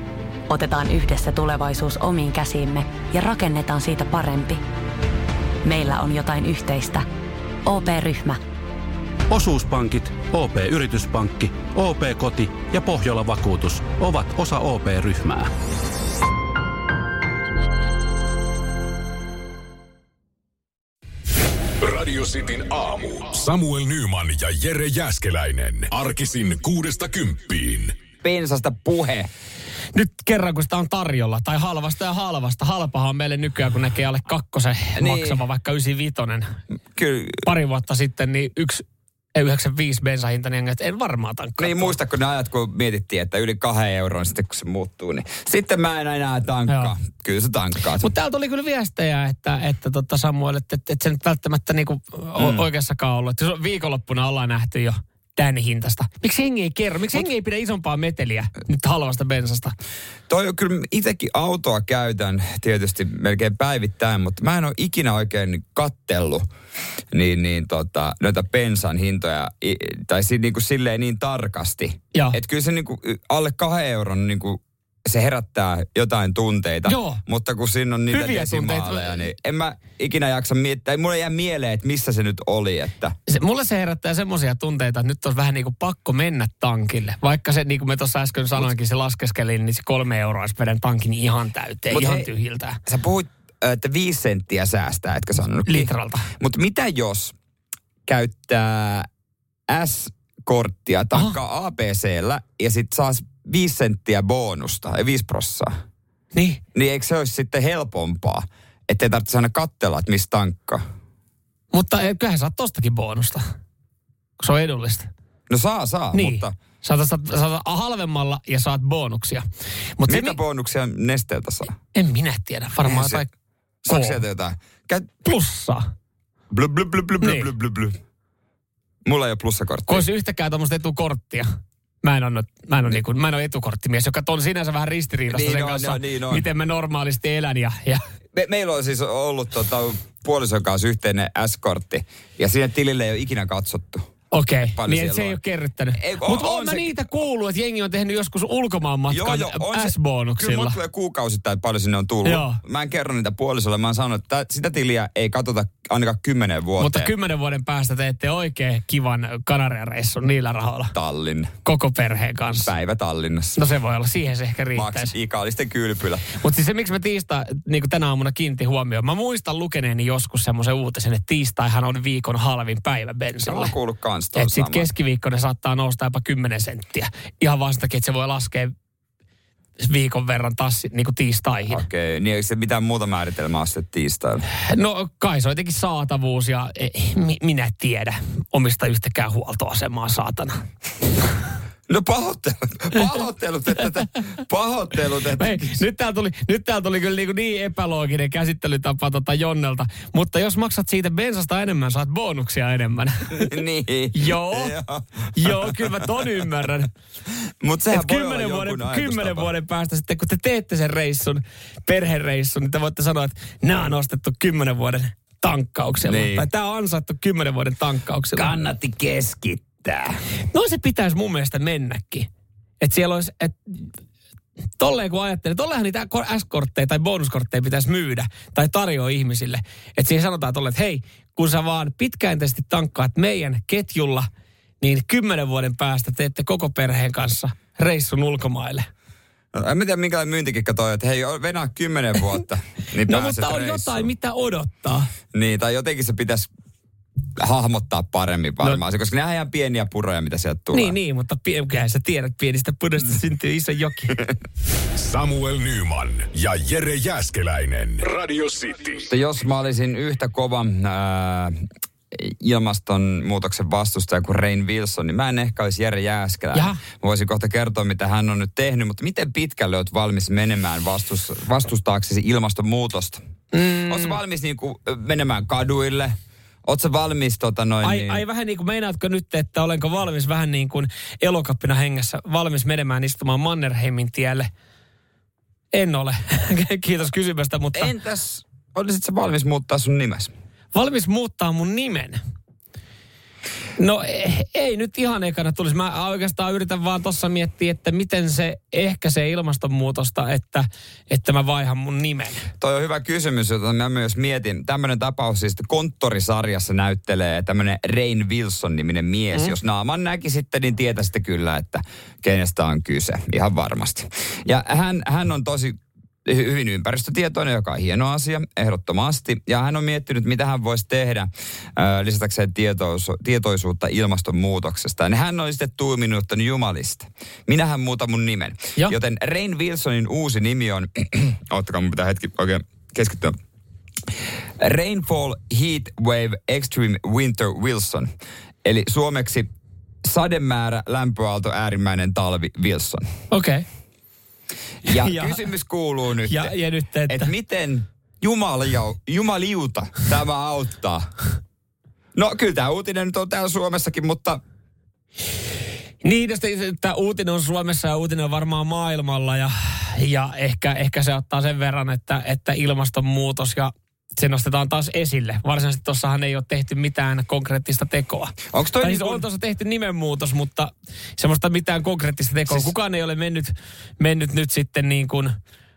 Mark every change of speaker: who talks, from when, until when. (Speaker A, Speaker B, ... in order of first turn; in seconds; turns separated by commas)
Speaker A: 0.5-4.6, Speaker A: 5.6-7.0, Speaker A: 7.6-8.4, Speaker B: 9.3-15.5, Speaker C: 21.8-27.9, Speaker D: 28.2-29.3, Speaker E: 29.9-36.6, Speaker D: 35.0-35.4, Speaker D: 37.0-37.4, Speaker E: 37.4-38.8, Speaker E: 39.3-42.0, Speaker D: 41.6-48.1, Speaker E: 48.0-59.7, Speaker D: 52.4-52.6, Speaker D: 60.3-66.5, Speaker D: 67.1-83.1, Speaker E: 76.8-77.2, Speaker E: 78.1-79.3, Speaker E: 83.3-92.8, Speaker D: 91.9-92.3, Speaker D: 92.8-97.3, Speaker E: 95.7-96.3, Speaker D: 98.1-99.1, Speaker D: 99.7-105.7, Speaker E: 106.3-106.6, Speaker D: 106.7-110.8, Speaker E: 111.7-113.4, Speaker E: 114.4-115.1, Speaker D: 115.5-116.5, Speaker E: 116.1-119.4, Speaker E: 120.0-120.4, Speaker D: 120.0-121.7, Speaker E: 121.9-123.3, Speaker D: 122.8-123.2, Speaker D: 123.8-125.1, Speaker E: 123.9-124.2, Speaker E: 125.2-125.9, Speaker D: 126.5-128.0, Speaker E: 127.2-127.5, Speaker D: 129.0-130.1, Speaker E: 129.9-131.5, Speaker E: 132.0-138.0, Speaker D: 135.3-136.4, Speaker D: 138.3-144.1, Speaker E: 144.3-150.8, Speaker D: 144.6-145.4, Speaker D: 145.9-147.0, Speaker D: 149.1-157.1, Speaker E: 152.2-152.6, Speaker E: 156.8-160.9, Speaker D: 160.9-161.5, Speaker E: 161.6-162.7, Speaker D: 162.6-163.7, Speaker E: 163.6-165.1, Speaker D: 164.7-166.3, Speaker E: 166.3-173.7, Speaker D: 173.4-174.9, Speaker E: 174.3-178.7, Speaker E: 179.8-181.8, Speaker D: 181.7-184.4, Speaker E: 184.7-190.6, Speaker D: 191.9-195.8, Speaker E: 195.4-203.5, Speaker D: 203.3-206.1, Speaker E: 204.1-204.7, Speaker E: 205.3-206.9, Speaker D: 207.6-209.5, Speaker E: 207.9-218.5, Speaker D: 216.0-216.5, Speaker D: 218.3-220.2, Speaker E: 220.5-222.3, Speaker E: 222.8-223.9, Speaker E: 224.8-234.3, Speaker E: 234.8-238.9, Speaker D: 239.5-244.1, Speaker E: 243.1-245.1, Speaker D: 245.3-246.5, Speaker D: 247.4-250.9, Speaker E: 250.7-254.2, Speaker C: 254.9-259.1, Speaker D: 259.1-273.2, Speaker E: 266.5-266.8, Speaker E: 273.5-274.2, Speaker D: 273.9-278.2, Speaker E: 277.8-284.5, Speaker E: 285.7-287.9, Speaker D: 287.7-290.3, Speaker E: 290.7-292.2, Speaker E: 293.8-302.5, Speaker D: 302.6-333.4, Speaker D: 334.6-338.1, Speaker D: 338.6-339.5, Speaker D: 340.0-343.1, Speaker E: 343.3-343.6, Speaker D: 344.9-346.6, Speaker E: 344.9-345.4, Speaker E: 346.3-347.3, Speaker D: 347.1-351.1, Speaker D: 352.1-354.4, Speaker E: 356.0-375.3, Speaker D: 368.5-369.2